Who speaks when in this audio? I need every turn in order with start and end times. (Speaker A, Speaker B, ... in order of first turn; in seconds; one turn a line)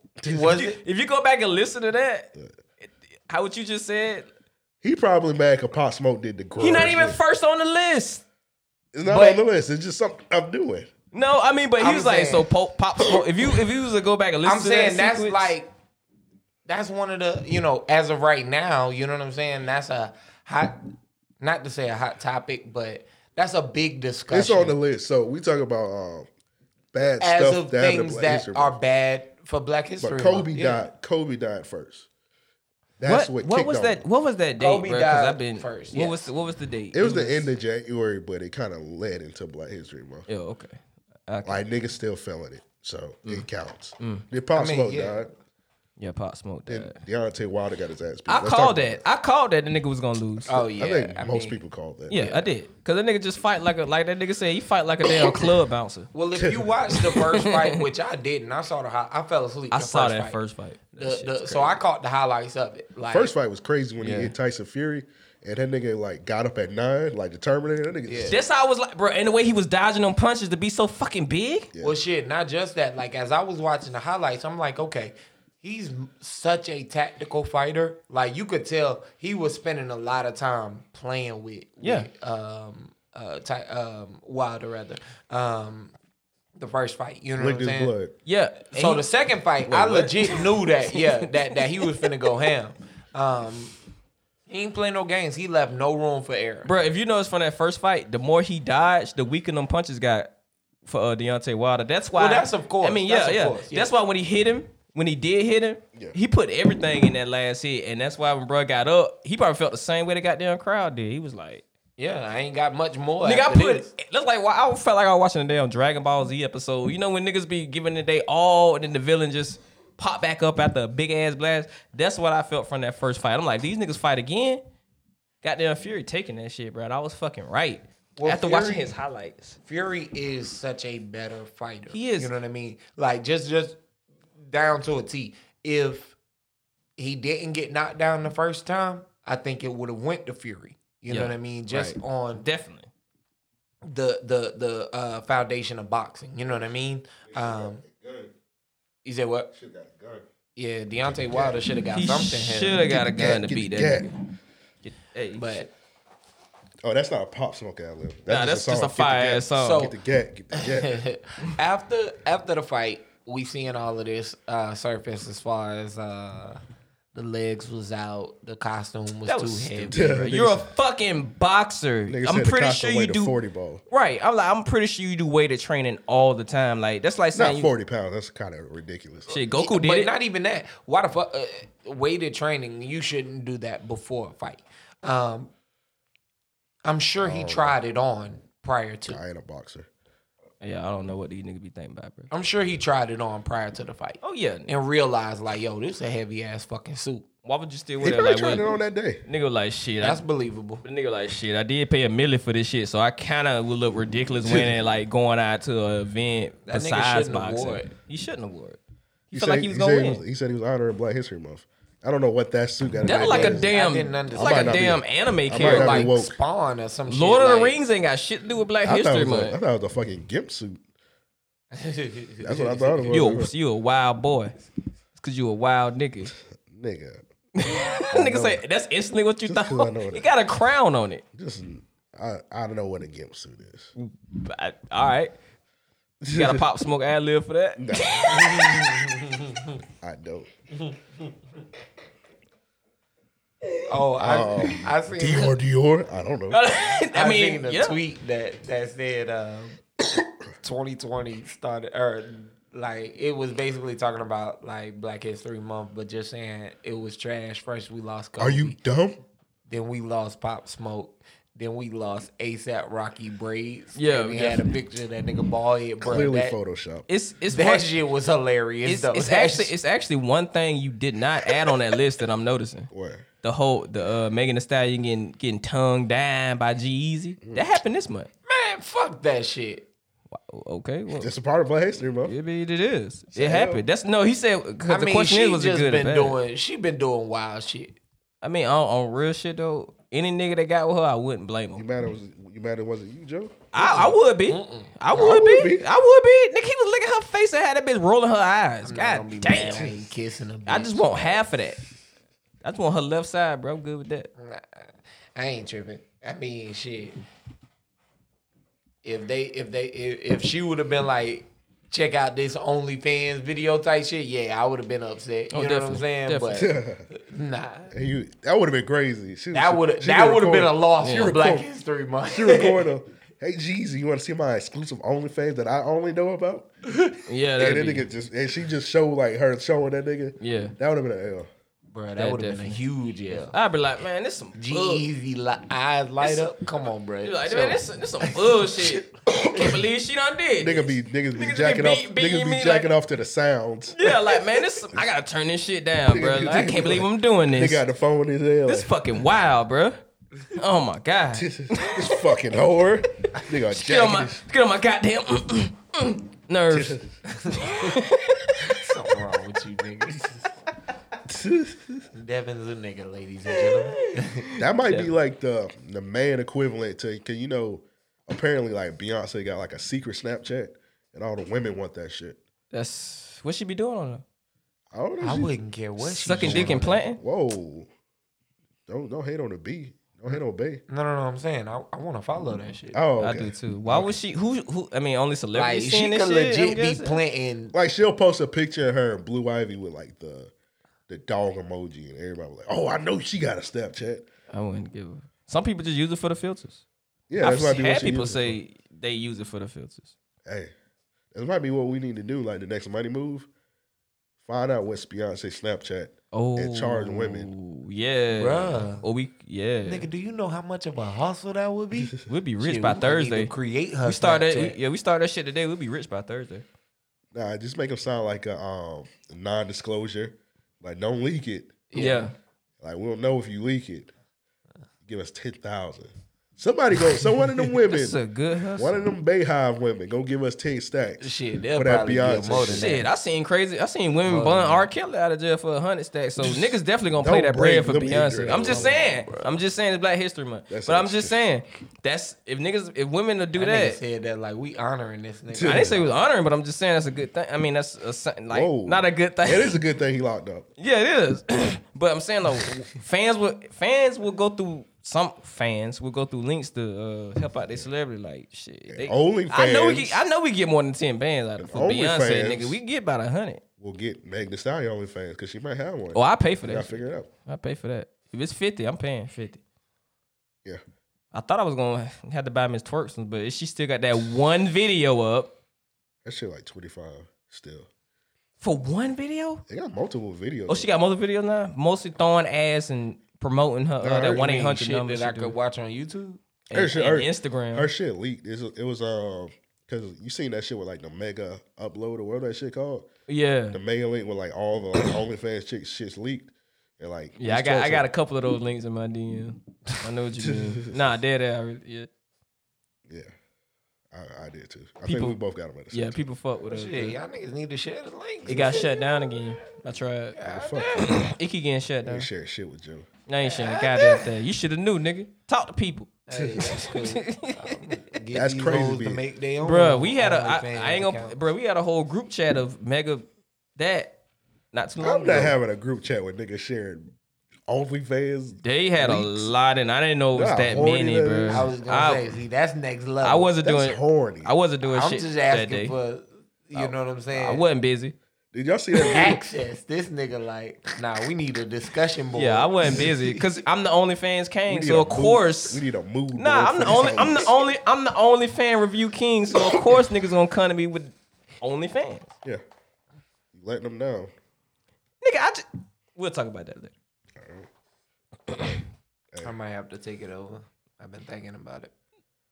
Speaker A: 0.2-0.5
Speaker B: 0.2-0.8
Speaker C: 0.5-2.3
Speaker C: 2.8-4.3
Speaker A: 4.8-7.2
Speaker C: 6.6-8.2
Speaker A: 8.9-10.9
Speaker B: 9.1-9.4
Speaker C: 11.1-15.5
Speaker B: 11.8-12.5
Speaker B: 14.4-15.7
Speaker B: 16.6-20.8
Speaker B: 21.4-24.8
Speaker A: 24.3-26.3
Speaker A: 26.9-28.8
Speaker B: 27.2-30.8
Speaker A: 30.0-32.1
Speaker A: 33.0-34.0
Speaker C: 33.0-37.5
Speaker B: 34.6-36.3
Speaker A: 36.9-40.2
Speaker C: 40.3-41.6
Speaker A: 41.4-45.3
Speaker C: 44.0-44.2
Speaker B: 44.5-45.2
Speaker C: 46.0-47.0
Speaker A: 46.7-49.0
Speaker C: 48.3-50.6
Speaker B: 50.5-51.6
Speaker A: 50.6-52.3
Speaker C: 52.1-56.1
Speaker B: 56.1-60.4
Speaker A: 56.3-56.9
Speaker C: 57.1-57.7
Speaker C: 59.7-61.8
Speaker B: 61.0-63.3
Speaker A: 63.1-68.4
Speaker C: 64.0-64.3
Speaker B: 68.1-68.4
Speaker C: 68.3-71.7
Speaker B: 71.8-85.9
Speaker C: 81.8-82.1
Speaker B: 86.5-87.9
Speaker A: 87.4-88.1
Speaker C: 88.2-89.0
Speaker B: 88.7-93.7
Speaker C: 89.7-92.1
Speaker B: 94.5-96.7
Speaker C: 96.6-100.3
Speaker C: 100.8-111.6
Speaker B: 102.1-103.9
Speaker B: 112.0-113.9
Speaker C: 113.2-124.6
Speaker C: 125.4-129.6
Speaker B: 128.2-128.9
Speaker B: 129.6-133.8
Speaker C: 131.9-132.3
Speaker B: 134.4-136.1
Speaker B: 137.0-142.4
Speaker C: 141.1-142.9
Speaker B: 143.8-147.8
Speaker A: 147.3-148.3
Speaker B: 149.0-149.5
Speaker A: 149.5-150.2
Speaker B: 150.6-152.8
Speaker A: 151.1-151.5
Speaker C: 151.9-154.1
Speaker A: 152.8-154.1
Speaker C: 154.8-155.7
Speaker B: 155.4-155.7
Speaker A: 156.8-161.0
Speaker C: 158.3-159.9
Speaker B: 159.6-159.9
Speaker B: 160.5-166.6
Speaker B: 167.1-170.2
Speaker C: 169.3-173.3
Speaker A: 169.9-170.7
Speaker A: 172.1-173.8
Speaker C: 173.9-177.7
Speaker A: 177.3-179.4
Speaker C: 179.3-180.1
Speaker B: 179.6-185.5
Speaker B: 186.8-189.2
Speaker A: 187.2-187.7
Speaker A: 189.1-189.9
Speaker C: 190.6-192.3
Speaker B: 192.3-197.2
Speaker C: 194.2-194.7
Speaker C: 197.4-198.7
Speaker A: 198.0-199.2
Speaker C: 199.3-200.2
Speaker B: 200.0-200.8
Speaker C: 200.8-208.8
Speaker A: 204.4-204.8
Speaker B: 206.7-207.9
Speaker C: 209.3-210.2
Speaker A: 209.3-213.7
Speaker C: 213.0-216.2
Speaker B: 213.2-214.9
Speaker A: 214.3-216.3
Speaker B: 215.6-217.8
Speaker C: 217.1-219.6
Speaker A: 218.8-220.8
Speaker B: 221.7-223.2
Speaker A: 222.4-223.5
Speaker C: 223.1-224.5
Speaker C: 225.2-226.3
Speaker A: 226.7-227.2
Speaker C: 227.6-231.2
Speaker A: 228.1-228.6
Speaker A: 229.4-230.3
Speaker A: 231.3-233.9
Speaker C: 234.0-235.3
Speaker A: 236.2-236.6
Speaker C: 236.3-238.9
Speaker A: 237.8-238.3
Speaker B: 238.5-239.7
Speaker A: 240.0-240.5
Speaker B: 243.9-245.5
Speaker A: 244.2-246.6
Speaker C: 246.5-248.0
Speaker B: 247.1-249.8
Speaker B: 250.6-258.8
Speaker A: 258.4-259.2
Speaker B: 259.7-266.6
Speaker C: 263.9-264.7
Speaker A: 266.0-267.1
Speaker C: 267.1-267.9
Speaker B: 267.5-269.7
Speaker C: 268.8-272.9
Speaker A: 272.9-273.3
Speaker C: 273.4-278.3
Speaker B: 278.5-279.9
Speaker C: 280.3-281.3
Speaker A: 281.1-282.3
Speaker C: 282.2-286.4
Speaker A: 283.3-283.8
Speaker B: 284.9-288.0
Speaker C: 288.4-291.8
Speaker A: 291.7-293.6
Speaker C: 293.7-299.9
Speaker B: 293.8-294.9
Speaker A: 295.1-295.8
Speaker B: 298.8-301.4
Speaker C: 300.6-301.8
Speaker C: 302.6-304.3
Speaker B: 304.4-307.1
Speaker B: 309.0-317.9
Speaker C: 315.5-316.6
Speaker A: 316.5-317.1
Speaker A: 317.9-321.6
Speaker B: 319.5-322.8
Speaker C: 321.0-321.3
Speaker A: 322.3-326.7
Speaker C: 327.3-328.1
Speaker A: 327.6-331.5
Speaker C: 330.4-330.7
Speaker B: 331.9-333.5
Speaker C: 332.2-332.8
Speaker C: 333.3-335.1
Speaker B: 334.6-339.0
Speaker C: 336.2-336.5
Speaker C: 337.2-342.9
Speaker A: 340.6-344.1
Speaker C: 343.9-347.8
Speaker A: 346.1-348.9
Speaker C: 348.6-350.0
Speaker C: 350.5-352.2
Speaker A: 351.3-354.4
Speaker C: 353.7-357.0
Speaker A: 356.7-357.1
Speaker B: 357.4-357.9
Speaker C: 357.6-358.4
Speaker B: 358.6-360.4
Speaker A: 361.2-362.0
Speaker B: 362.1-364.5
Speaker A: 364.6-372.4
Speaker C: 364.8-365.1
Speaker C: 372.7-374.2
Speaker A: 374.9-375.5
Speaker B: 375.2-377.0
Speaker C: 376.0-377.2
Speaker A: 376.4-377.9
Speaker A: 378.9-380.8
Speaker B: 380.9-383.0
Speaker A: 382.9-384.1
Speaker C: 383.2-387.2
Speaker B: 385.5-387.7
Speaker A: 387.7-390.5
Speaker A: 391.1-394.3
Speaker C: 394.5-396.8
Speaker A: 397.3-398.6
Speaker C: 397.4-400.1
Speaker A: 400.4-400.7
Speaker A: 401.3-403.5
Speaker A: 404.4-407.5
Speaker C: 406.3-410.1
Speaker B: 408.3-409.0
Speaker B: 409.8-414.8
Speaker C: 412.3-416.6
Speaker A: 417.3-421.8
Speaker B: 421.9-422.3
Speaker C: 421.9-422.3
Speaker A: 422.8-424.1
Speaker A: 425.1-428.2
Speaker C: 427.9-429.0
Speaker A: 428.8-433.0
Speaker B: 431.2-433.0
Speaker C: 432.5-444.0
Speaker B: 434.3-434.9
Speaker A: 436.4-439.3
Speaker B: 438.4-439.4
Speaker A: 440.7-441.4
Speaker B: 443.5-446.2
Speaker A: 445.5-446.0
Speaker C: 445.6-449.8
Speaker A: 448.5-450.7
Speaker C: 450.8-463.6
Speaker A: 458.9-460.2
Speaker A: 461.6-462.8
Speaker A: 463.8-467.3
Speaker C: 466.1-469.6
Speaker C: 471.3-475.5
Speaker A: 476.2-477.9
Speaker C: 478.6-479.6
Speaker A: 479.7-480.9
Speaker C: 480.7-485.5
Speaker A: 484.0-484.5
Speaker B: 484.1-486.4
Speaker C: 486.7-487.9
Speaker A: 486.7-493.1
Speaker C: 493.3-493.8
Speaker A: 493.7-498.1
Speaker C: 497.4-502.1
Speaker A: 500.4-500.9
Speaker A: 503.1-503.3
Speaker A: 504.1-506.2
Speaker C: 505.0-505.4
Speaker C: 505.9-507.2
Speaker B: 506.7-508.9
Speaker C: 508.5-510.4
Speaker A: 508.5-508.7
Speaker B: 510.4-511.0
Speaker A: 510.4-511.2
Speaker C: 510.9-512.3
Speaker A: 512.0-513.1
Speaker C: 513.3-516.2
Speaker B: 513.5-514.2
Speaker B: 516.3-521.4
Speaker A: 516.3-516.6
Speaker C: 516.7-517.6
Speaker A: 518.3-519.2
Speaker C: 519.6-524.1
Speaker C: 524.7-525.5
Speaker A: 525.0-527.1
Speaker A: 527.7-529.5
Speaker C: 528.6-532.3
Speaker A: 530.3-531.7
Speaker B: 531.5-533.5
Speaker C: 533.2-535.9
Speaker A: 533.6-534.5
Speaker B: 534.8-537.6
Speaker C: 536.8-538.1
Speaker A: 538.5-539.4
Speaker B: 539.0-543.4
Speaker C: 542.4-545.8
Speaker A: 544.7-547.6
Speaker C: 546.3-552.3
Speaker A: 553.5-554.3
Speaker C: 555.2-555.6
Speaker C: 556.1-556.9
Speaker A: 557.4-557.7
Speaker B: 559.4-561.9